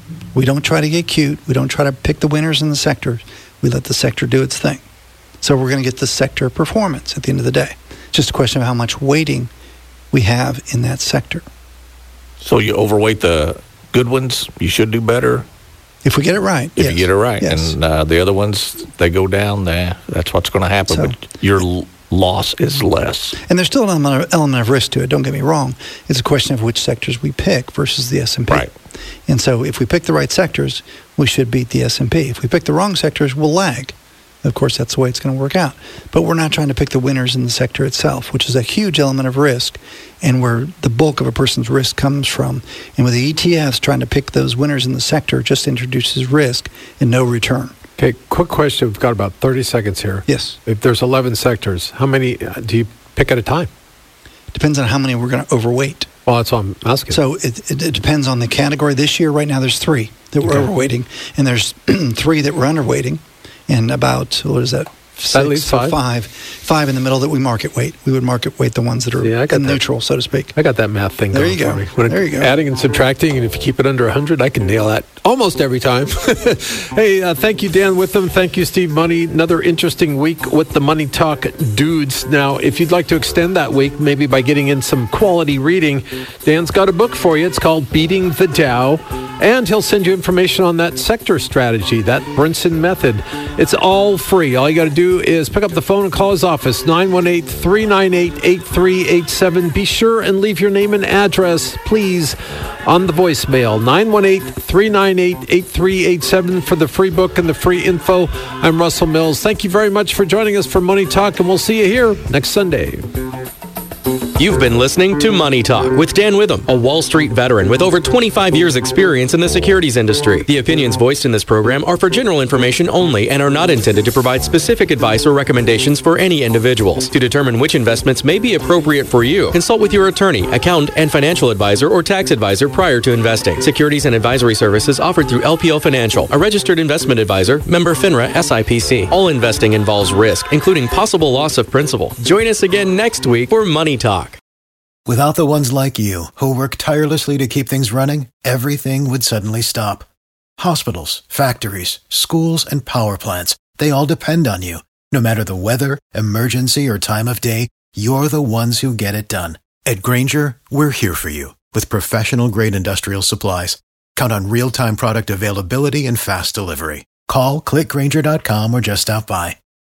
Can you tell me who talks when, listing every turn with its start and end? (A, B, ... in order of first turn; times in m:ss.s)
0:00.3-0:04.8 A
0:05.4-0:09.5 A
0:10.1-0:11.4 A
0:12.4-0:15.4 B
0:16.0-0:17.8 A
0:16.8-0:23.4 B
0:20.9-0:21.2 A
0:23.4-0:28.7 A
0:29.3-0:47.7 A
0:48.0-0:53.7 C
0:50.3-0:50.6 A
0:54.5-0:56.1 A
0:56.2-0:57.2 C
0:57.1-1:10.5 A
1:00.4-1:00.7 C
1:05.3-1:06.0 C
1:09.2-1:09.8 C
1:10.5-1:53.1 C
1:11.3-1:12.5 A
1:54.4-2:24.4 D
2:25.1-2:30.1 E
2:30.6-2:49.6 E